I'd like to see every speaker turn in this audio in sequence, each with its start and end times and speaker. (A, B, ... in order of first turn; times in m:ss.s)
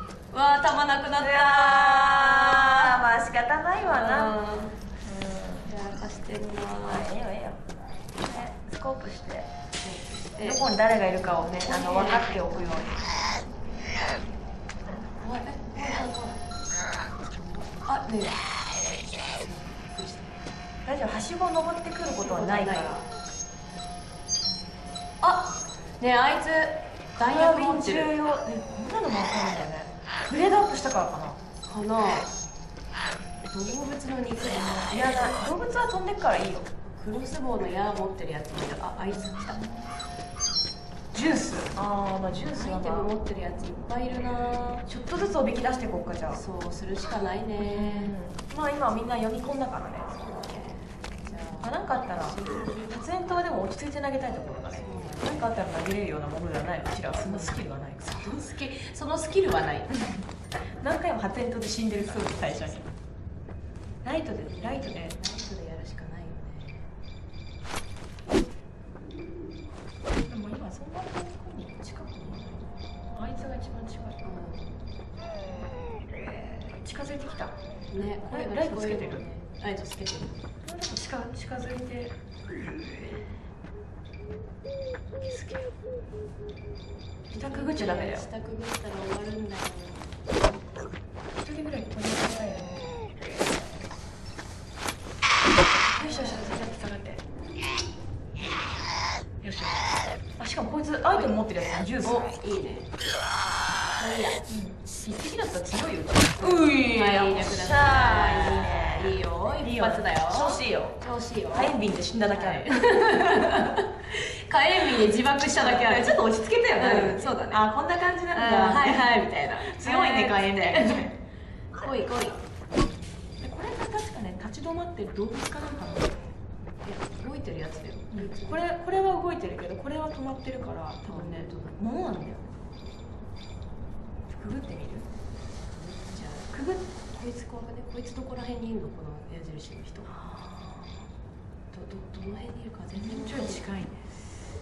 0:00.3-0:03.0 A
0:01.2-0:04.4 B
0:03.8-0:04.8 A
0:05.0-0:05.7 B
0:05.7-0:07.1 A
0:06.8-0:07.6 B
0:08.2-0:09.5 B
0:09.8-0:10.6 A
0:10.4-0:13.1 B
0:11.3-0:12.9 A
0:15.2-0:16.4 A
0:17.4-0:18.4 A
0:19.3-0:20.4 A
0:20.8-0:23.0 B
0:22.2-0:23.1 A
0:25.2-0:28.1 A
0:27.2-0:31.4 B
0:31.7-0:32.3 A
0:33.5-0:35.5 A
0:34.4-0:36.7 B
0:36.9-0:39.6 A
0:41.1-0:43.1 B
0:42.5-0:44.9 A
0:44.9-0:46.4 B
0:46.3-0:48.1 A
0:47.6-0:50.2 B
0:50.2-0:53.1 A
0:51.6-0:58.1 B
0:54.8-0:55.5 A
0:57.2-0:59.9 A
1:00.8-1:02.8 B
1:02.0-1:02.5 A
1:04.0-1:05.2 B
1:04.5-1:06.9 A
1:10.1-1:12.6 B
1:13.1-1:14.2 B
1:14.2-1:14.8 A
1:16.7-1:19.2 B
1:17.9-1:20.4 A
1:20.6-1:23.3 B
1:25.3-1:25.6 B
1:27.3-1:30.3 A
1:27.4-1:28.3 B
1:31.4-1:32.9 B
1:35.9-1:37.2 B
1:36.0-1:36.7 A
1:39.4-1:39.8 B
1:40.4-1:42.2 B
1:42.0-1:42.9 A
1:44.0-1:44.4 A
1:44.4-1:45.0 B
1:45.0-1:51.8 A
1:46.2-1:51.0 B
1:51.5-1:53.7 B
1:52.3-1:56.2 A
1:55.6-2:01.2 B
1:56.8-1:57.6 A
1:58.3-2:01.1 A
2:01.8-2:02.4 A
2:03.4-2:06.3 B
2:06.8-2:08.6 A
2:08.1-2:12.4 B
2:11.1-2:11.8 A
2:14.3-2:15.1 B
2:15.7-2:20.1 A
2:20.1-2:21.0 B
2:21.7-2:23.6 A
2:23.0-2:24.1 B